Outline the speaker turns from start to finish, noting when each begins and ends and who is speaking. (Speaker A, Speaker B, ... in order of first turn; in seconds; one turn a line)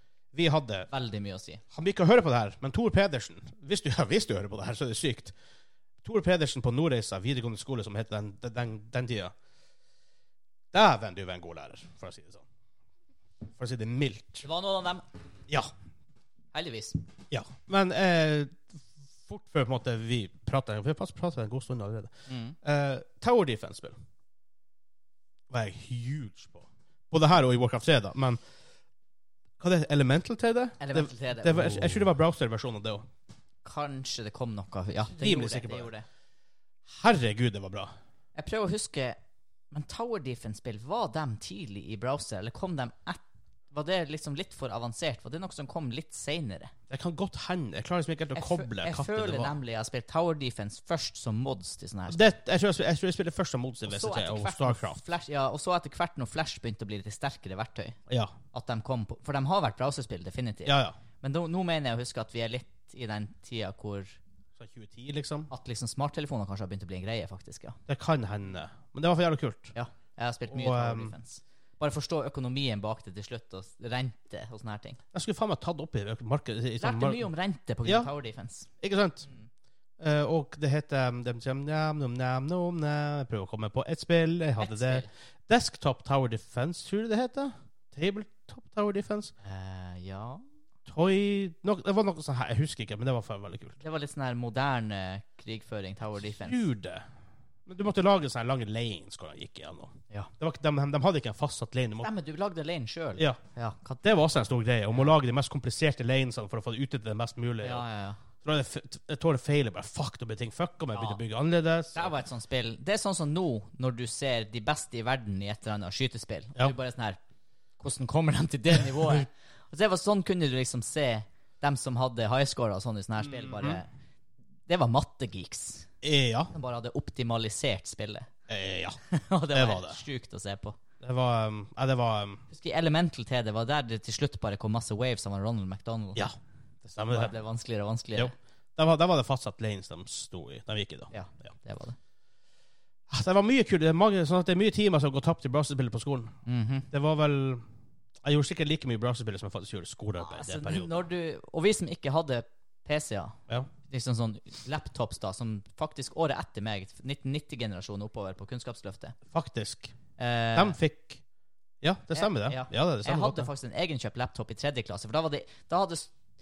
Speaker A: 0.3-0.9
Speaker B: 0.9-1.6
Speaker A: 1.7-5.3
Speaker A: 6.0-9.3
Speaker A: 10.7-12.4
Speaker A: 13.6-14.4
Speaker B: 14.4-15.0
Speaker B: 16.5-17.0
Speaker A: 17.3-24.0
Speaker B: 22.3-22.6
Speaker A: 25.5-28.4
Speaker A: 29.6-33.0
Speaker B: 30.8-32.1
Speaker B: 33.6-36.0
Speaker A: 35.1-35.9
Speaker A: 36.9-37.9
Speaker B: 38.3-39.2
Speaker B: 39.7-46.7
Speaker A: 46.9-49.5
Speaker B: 48.3-52.2
Speaker A: 52.1-55.0
Speaker B: 53.9-58.0
Speaker A: 58.1-58.3
Speaker B: 58.5-64.2
Speaker A: 60.6-61.0
Speaker A: 64.6-65.5
Speaker B: 65.5-67.8
Speaker A: 67.9-69.7
Speaker B: 69.7-75.0
Speaker A: 70.5-71.1
Speaker A: 75.1-77.3
Speaker B: 76.8-78.7
Speaker A: 77.8-78.1
Speaker A: 78.8-79.3
Speaker A: 80.0-89.3
Speaker B: 84.6-85.1
Speaker B: 89.4-90.4
Speaker A: 90.9-93.8
Speaker B: 93.8-96.6
Speaker A: 96.2-97.0
Speaker A: 97.7-102.1
Speaker B: 102.0-104.0
Speaker A: 104.0-107.8
Speaker B: 107.6-108.2
Speaker A: 108.4-112.1
Speaker B: 110.9-111.2
Speaker B: 111.9-117.2
Speaker B: 117.8-123.9
Speaker A: 123.2-123.8
Speaker B: 124.7-125.9
Speaker A: 126.0-126.5
Speaker B: 126.5-128.3
Speaker A: 128.5-129.0
Speaker B: 129.1-130.8
Speaker A: 129.5-130.0
Speaker A: 131.0-132.4
Speaker B: 132.5-136.2
Speaker A: 136.2-137.3
Speaker B: 137.1-138.3
Speaker A: 138.2-141.1
Speaker B: 141.1-142.0
Speaker A: 143.1-146.3
Speaker B: 146.4-146.9
Speaker A: 146.9-147.6
Speaker A: 148.2-151.0
Speaker B: 150.2-159.2
Speaker A: 159.3-159.9
Speaker B: 160.2-160.8
Speaker A: 160.5-161.2
Speaker A: 161.8-163.5
Speaker B: 162.1-166.1